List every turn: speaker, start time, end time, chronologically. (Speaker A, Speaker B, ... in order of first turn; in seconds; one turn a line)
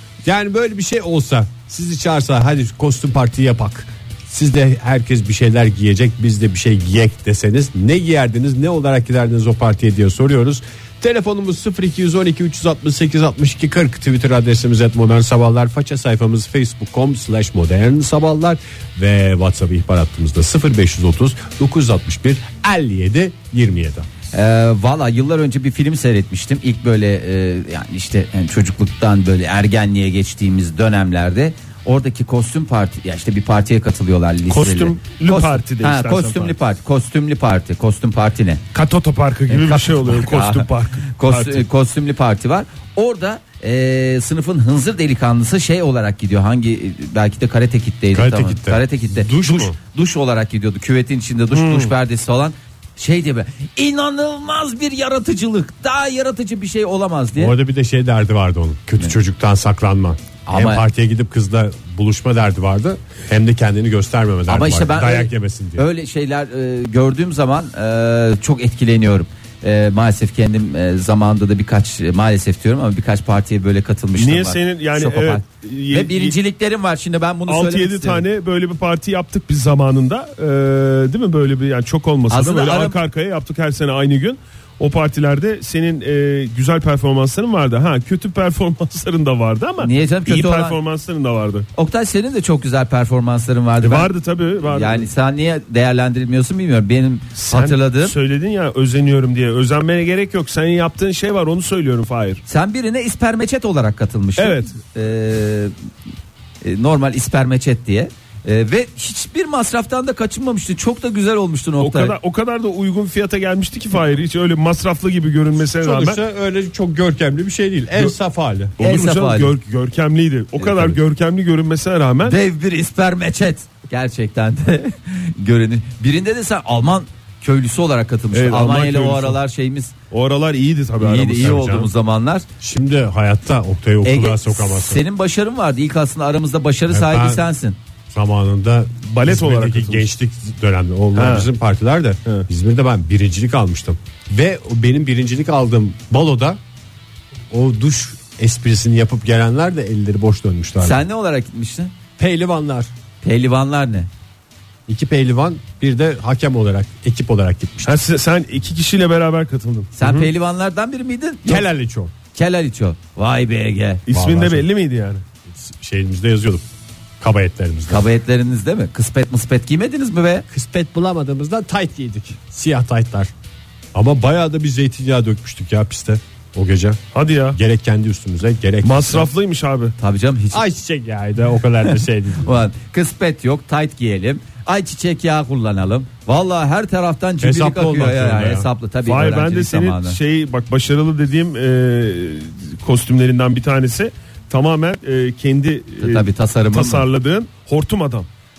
Speaker A: 0.2-24.1
Speaker B: 24.3-38.6
Speaker C: 34.5-36.5
Speaker C: 38.7-41.6
Speaker B: 39.5-57.5
Speaker A: 48.1-49.8
Speaker C: 51.5-51.9
Speaker A: 57.4-65.8
Speaker B: 60.5-60.8
Speaker B: 64.5-78.2
Speaker C: 74.2-76.3
Speaker C: 77.5-91.7
Speaker B: 82.3-83.0
Speaker B: 89.8-90.8
Speaker B: 91.7-94.1
Speaker C: 93.8-95.1
Speaker B: 94.6-98.1
Speaker C: 97.4-102.4
Speaker B: 102.5-105.7
Speaker C: 104.4-104.7
Speaker B: 106.6-112.1
Speaker C: 111.8-116.2
Speaker A: 115.8-118.7
Speaker C: 118.8-122.4
Speaker B: 118.8-119.5
Speaker B: 120.6-121.0
Speaker B: 122.2-129.9
Speaker C: 128.3-129.4
Speaker C: 130.1-131.6
Speaker B: 131.0-132.4
Speaker A: 131.4-131.9
Speaker A: 132.6-135.0
Speaker B: 134.0-137.8
Speaker A: 136.9-137.4
Speaker A: 138.1-146.6
Speaker C: 139.1-140.1
Speaker C: 141.1-141.5
Speaker A: 147.5-151.0
Speaker B: 150.8-151.9
Speaker A: 152.2-152.9
Speaker B: 153.2-154.1
Speaker A: 154.9-158.0
Speaker C: 157.8-160.3
Speaker B: 159.9-161.7
Speaker A: 161.4-162.1
Speaker B: 162.3-164.0
Speaker C: 164.1-165.2
Speaker A: 164.1-164.7
Speaker A: 165.5-166.7
Speaker A: 167.2-168.1
Speaker B: 167.9-170.4
Speaker A: 170.5-173.3
Speaker A: 173.9-177.0
Speaker C: 177.1-177.6
Speaker A: 177.5-179.3
Speaker C: 178.8-179.9
Speaker B: 180.0-180.6
Speaker A: 180.5-182.5
Speaker B: 182.4-190.2
Speaker A: 187.4-188.7
Speaker C: 189.1-198.3
Speaker B: 196.0-197.1